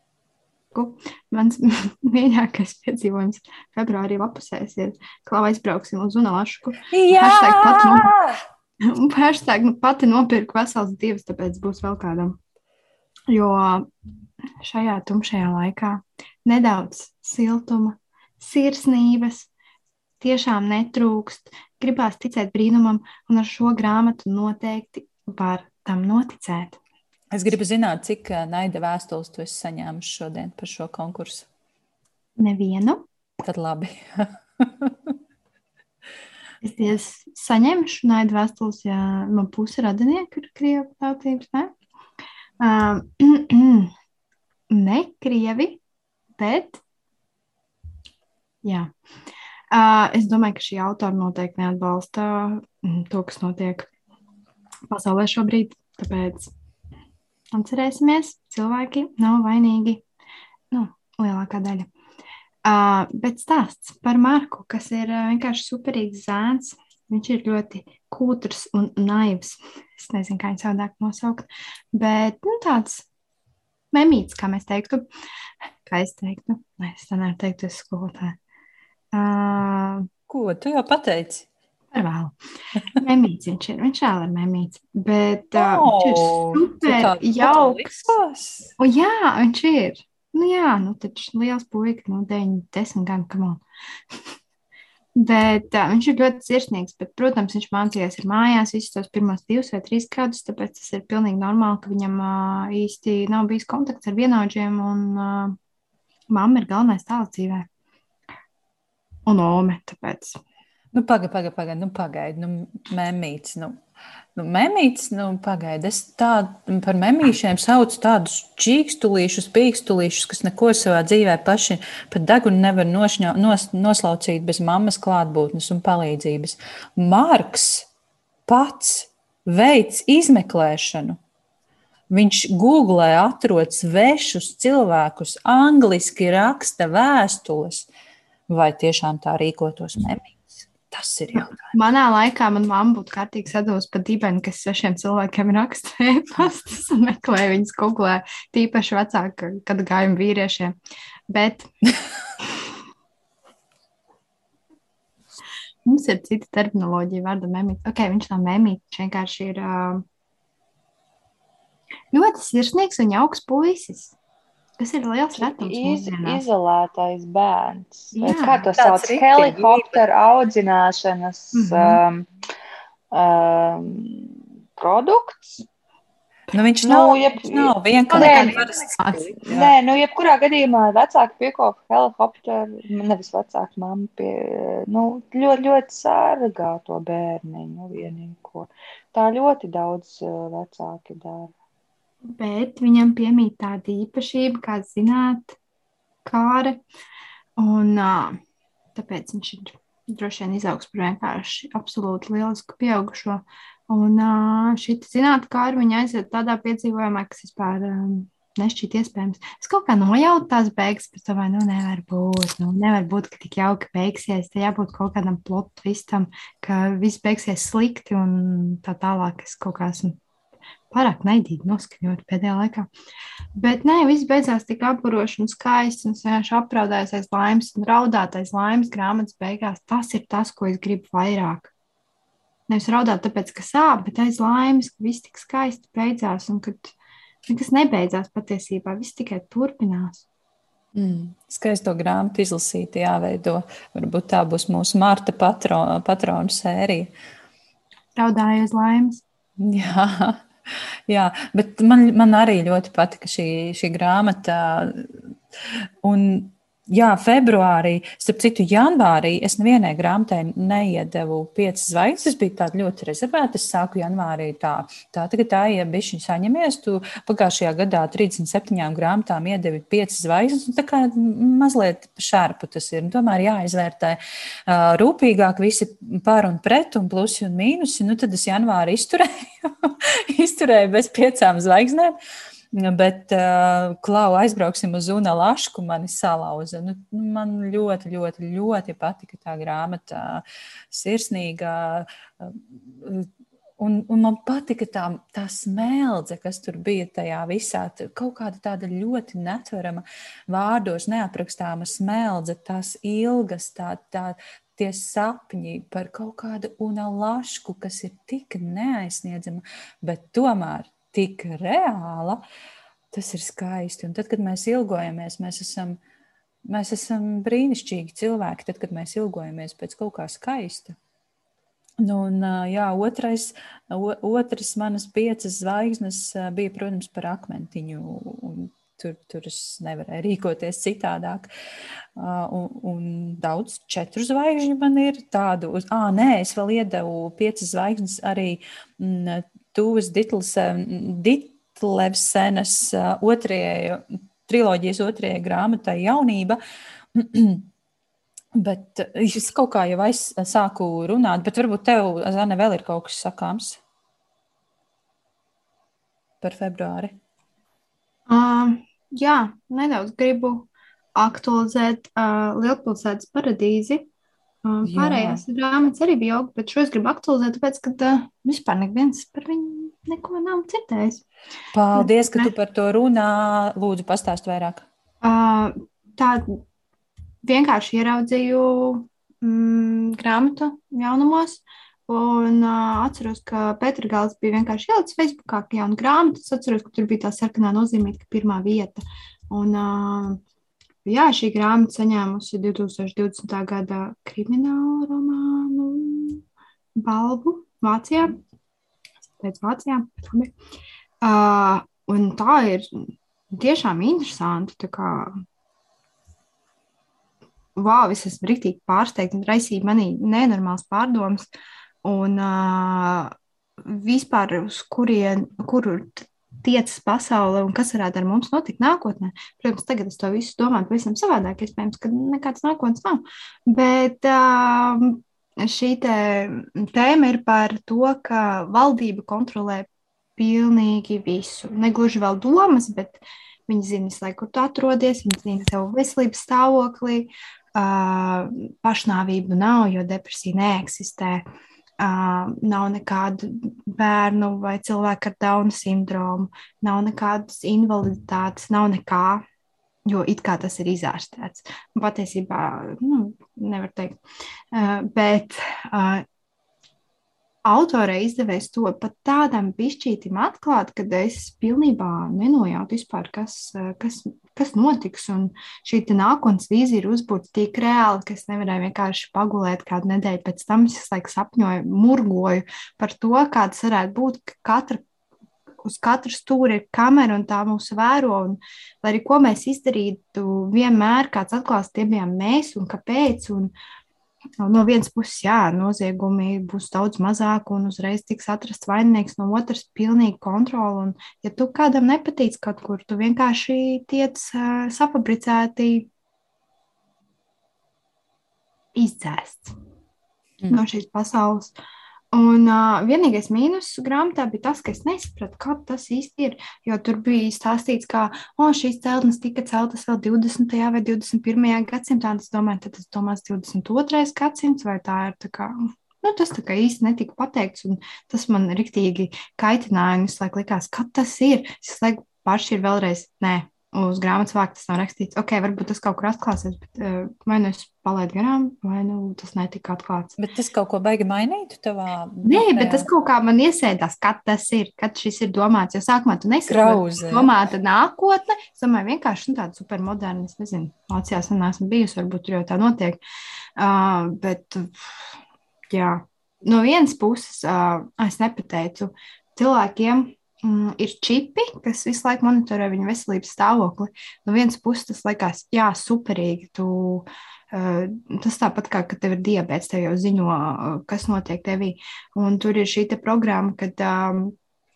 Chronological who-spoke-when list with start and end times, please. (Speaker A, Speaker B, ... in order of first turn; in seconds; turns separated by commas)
Speaker A: 0.7-8.1, Speaker B: 6.9-8.4, Speaker A: 8.8-12.4, Speaker A: 13.3-13.9, Speaker A: 14.6-19.5, Speaker A: 20.2-26.8, Speaker B: 27.3-31.5, Speaker A: 32.4-33.0, Speaker B: 33.4-35.0, Speaker A: 36.6-41.7, Speaker A: 42.6-43.9, Speaker A: 44.7-45.8, Speaker A: 46.4-46.8, Speaker A: 48.6-48.9, Speaker A: 49.7-53.9, Speaker A: 54.9-56.5, Speaker A: 57.5-60.0, Speaker A: 60.7-61.9, Speaker A: 62.6-73.1, Speaker A: 73.9-75.1, Speaker A: 75.9-78.4, Speaker A: 79.1-80.1, Speaker B: 80.3-81.5, Speaker A: 81.9-82.3, Speaker A: 83.0-88.1, Speaker B: 85.5-88.7, Speaker A: 88.8-93.6, Speaker A: 95.2-105.6, Speaker A: 106.3-107.7, Speaker A: 109.3-110.4, Speaker B: 110.9-113.8, Speaker B: 114.4-127.9, Speaker B: 128.5-131.2, Speaker B: 132.1-137.9, Speaker B: 138.5-141.6, Speaker A: 141.3-150.8, Speaker A: 151.3-151.7, Speaker A: 155.8-160.0, Speaker A: 162.1-164.2, Speaker A: 164.8-166.4, Speaker C: 165.4-172.3, Speaker A: 168.2-168.7, Speaker B: 168.7-170.0, Speaker A: 171.5-172.0, Speaker C: 173.1-175.6, Speaker B: 176.5-179.7, Speaker C: 176.8-178.6, Speaker A: 178.1-179.3, Speaker C: 179.4-191.5, Speaker A: 192.2-195.6, Speaker A: 196.2-196.8, Speaker A: 197.6-198.4, Speaker A: 198.9-220.2, Speaker A: 220.9-222.9, Speaker A: 223.6-231.7, Speaker A: 232.7-236.9, Speaker A: 237.5-240.3, Speaker B: 240.9-247.1, Speaker A: 248.2-249.2, Speaker B: 249.6-250.5, Speaker B: 251.1-255.1, Speaker B: 256.0-282.2, Speaker B: 282.7-312.4, Speaker B: 313.1-316.0, Speaker B: 316.7-320.9, Speaker B: 322.0-331.5, Speaker B: 332.2-346.6, Speaker B: 347.1-347.7, Speaker B: 348.6-353.8, Speaker B: 356.4-357.1, Speaker A: 358.3-364.1, Speaker A: 364.6-371.2, Speaker B: 364.8-365.4, Speaker B: 371.7-374.9, Speaker A: 372.0-372.5, Speaker A: 375.2-376.6, Speaker A: 377.4-390.4, Speaker A: 391.1-396.4, Speaker A: 396.9-398.4, Speaker A: 399.4-400.5, Speaker A: 401.2-405.4, Speaker A: 407.8-411.5, Speaker A: 412.0-441.4, Speaker A: 442.0-449.4, Speaker A: 450.1-454.2, Speaker A: 454.7-456.2, Speaker A: 457.6-475.0, Speaker A: 475.8-483.7, Speaker A: 484.6-496.1, Speaker A: 498.9-499.7, Speaker A: 500.7-501.7, Speaker A: 502.3-530.4, Speaker B: 530.4-533.1, Speaker A: 532.4-543.2, Speaker B: 536.7-537.6, Speaker A: 543.8-545.2, Speaker A: 545.9-564.5